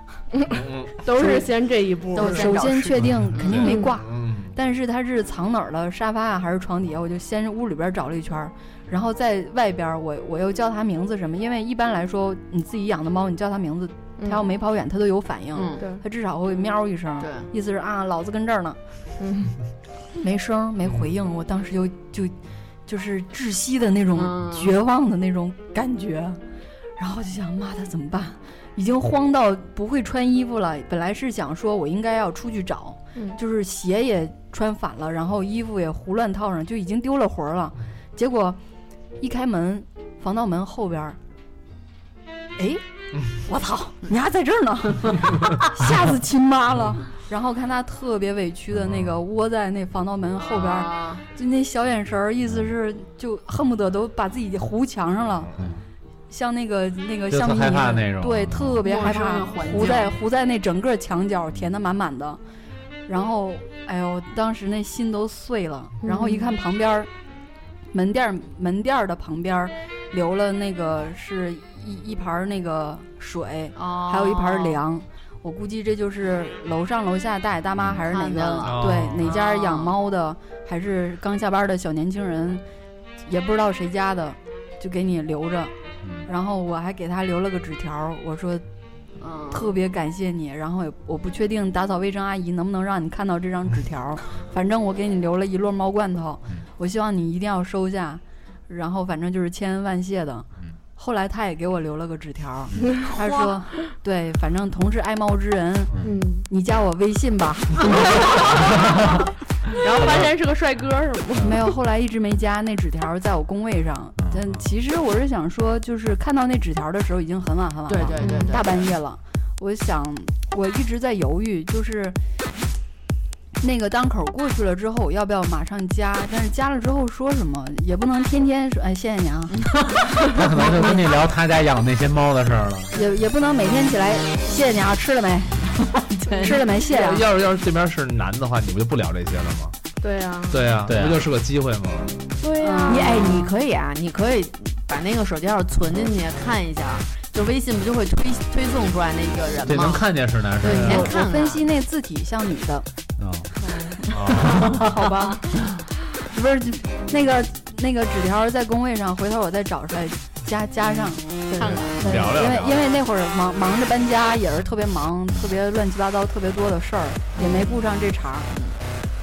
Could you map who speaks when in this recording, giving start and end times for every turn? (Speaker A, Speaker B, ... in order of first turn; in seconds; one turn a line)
Speaker A: 0.3-2.7
Speaker B: 0.5-1.0
Speaker C: 2.1-3.8
Speaker D: 2.2-18.8
Speaker B: 3.0-4.5
Speaker A: 3.6-3.9
Speaker C: 15.5-15.8
Speaker C: 17.2-17.5
Speaker A: 19.2-19.5
Speaker D: 20.2-22.3
Speaker D: 22.9-26.4
Speaker C: 24.1-24.7
Speaker D: 27.0-38.6
Speaker D: 39.2-41.2
Speaker D: 42.6-42.8
Speaker D: 43.3-55.5
Speaker C: 50.4-51.2
Speaker B: 55.5-55.7
Speaker D: 56.3-62.4
Speaker E: 57.3-58.8
Speaker C: 58.8-60.1
Speaker D: 63.1-67.1
Speaker D: 67.9-82.6
Speaker C: 73.7-74.8
Speaker C: 78.0-79.9
Speaker B: 78.6-79.3
Speaker D: 83.2-85.7
Speaker D: 86.3-88.6
Speaker C: 89.2-89.7
Speaker D: 89.5-105.9
Speaker A: 103.0-103.5
Speaker A: 106.0-106.5
Speaker D: 106.5-108.3
Speaker A: 107.8-111.5
Speaker D: 111.4-122.2
Speaker C: 117.9-118.8
Speaker B: 118.2-118.5
Speaker D: 123.6-129.7
Speaker C: 129.5-130.4
Speaker E: 130.3-132.9
Speaker D: 130.6-131.0
Speaker D: 132.9-135.7
Speaker C: 136.0-136.6
Speaker D: 136.4-137.2
Speaker B: 136.9-139.8
Speaker A: 140.0-140.6
Speaker B: 140.5-142.2
Speaker E: 140.8-141.2
Speaker A: 142.4-143.4
Speaker D: 142.6-143.5
Speaker C: 142.9-150.0
Speaker E: 149.7-151.1
Speaker C: 150.6-151.6
Speaker B: 150.7-151.1
Speaker D: 150.9-152.9
Speaker E: 153.2-153.5
Speaker A: 153.6-154.0
Speaker B: 154.1-154.8
Speaker A: 154.7-155.3
Speaker D: 155.0-155.3
Speaker C: 155.1-155.3
Speaker D: 156.3-168.5
Speaker C: 161.6-162.3
Speaker B: 161.6-162.9
Speaker C: 167.3-167.8
Speaker C: 168.5-168.8